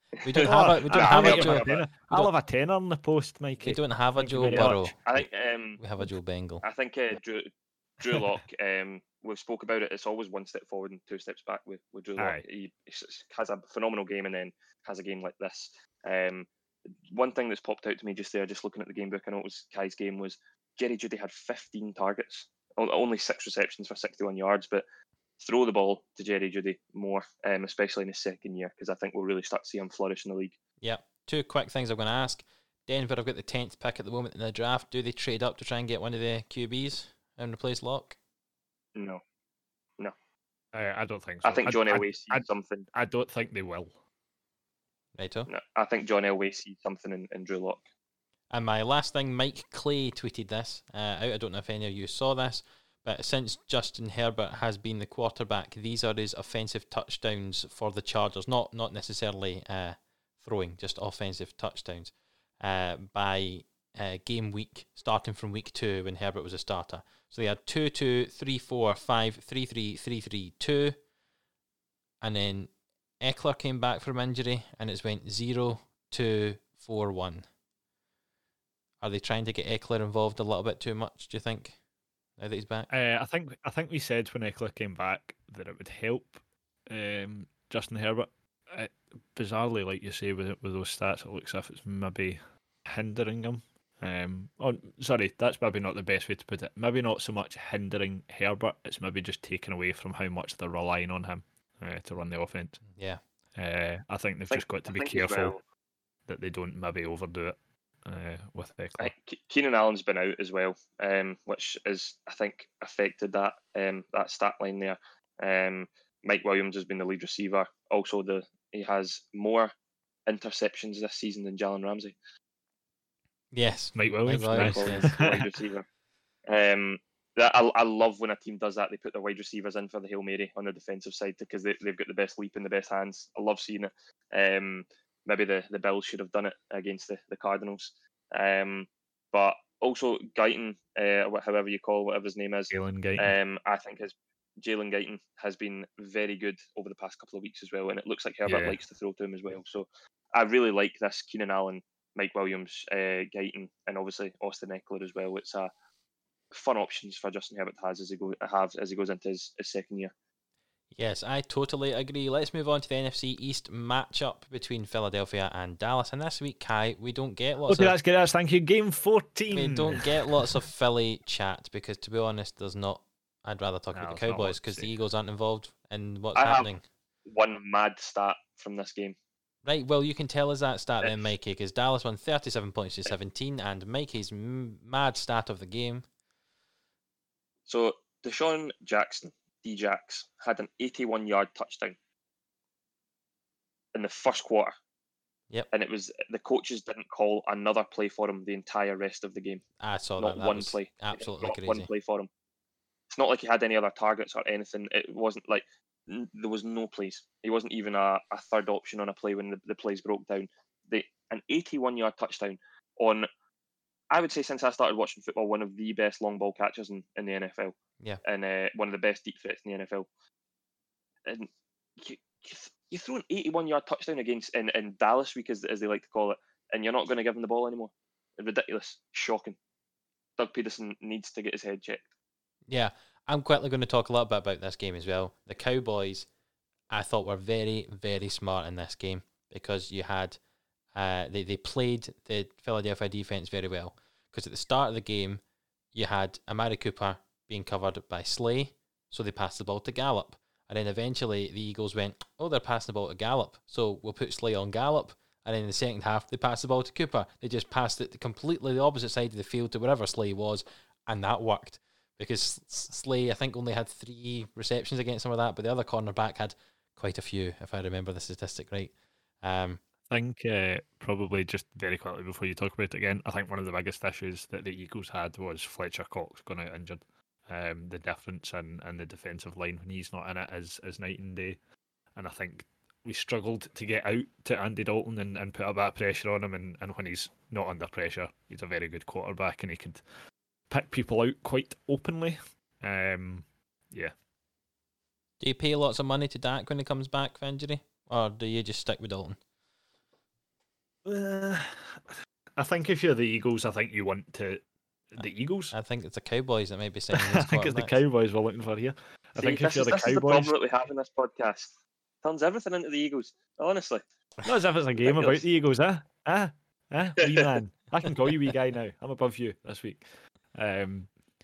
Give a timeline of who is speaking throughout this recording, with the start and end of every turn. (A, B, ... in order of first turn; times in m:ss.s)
0:00.2-0:01.9 A
0:00.2-0:02.3 B
0:00.4-0:04.9 C
0:03.6-0:05.0 B
0:04.4-0:05.8 A
0:05.8-0:06.6 B
0:06.6-0:16.5 A
0:12.2-0:12.4 C
0:17.1-0:24.8 A
0:25.4-0:30.6 A
0:30.8-0:38.2 B
0:38.9-0:39.2 A
0:40.7-0:44.0 C
0:41.4-0:42.8 A
0:45.1-0:45.5 B
0:45.5-0:47.8 A
0:48.5-1:11.0 B
1:12.2-1:17.5 B
1:19.0-1:21.8 B
1:22.4-1:22.9 B
1:22.9-1:42.8 C
1:42.9-1:43.2 B
1:43.6-1:45.6 C
1:44.5-1:45.6 A
1:46.3-1:49.1 C
1:49.0-1:59.7 A
2:00.2-2:02.2 A
2:03.5-2:05.1 B
2:03.9-2:05.5 C
2:04.5-2:05.8 A
2:06.5-2:35.7 A
2:22.7-2:23.3 C
2:28.4-2:28.8 C
2:36.5-2:40.1 A
2:40.9-2:47.9 B
2:47.7-2:50.5 C
2:49.5-2:56.8 B
2:53.9-2:54.9 C
2:56.3-2:56.7 A
2:57.3-2:59.2 A
2:59.6-3:06.0 B
3:07.6-3:12.0 A
3:13.9-3:14.7 A
3:15.7-3:19.6 A
3:19.8-3:21.9 B
3:20.2-3:22.3 A
3:23.1-3:33.3 A
3:34.1-3:40.1 A
3:42.0-3:49.6 A
3:50.4-3:52.0 A
3:52.7-3:56.3 B
3:56.9-4:00.4 B
4:00.9-4:05.4 B
4:05.9-4:29.8 B
4:30.1-4:41.6 C
4:42.2-4:50.0 C
4:50.7-4:54.1 C
4:55.4-4:59.4 B
5:01.0-5:02.0 C
5:02.6-5:05.7 C
5:05.7-5:08.0 B
5:07.1-5:10.5 C
5:09.4-5:11.7 A
5:12.2-5:14.0 A
5:14.4-5:21.1 C
5:15.0-5:15.4 A
5:17.2-5:17.5 A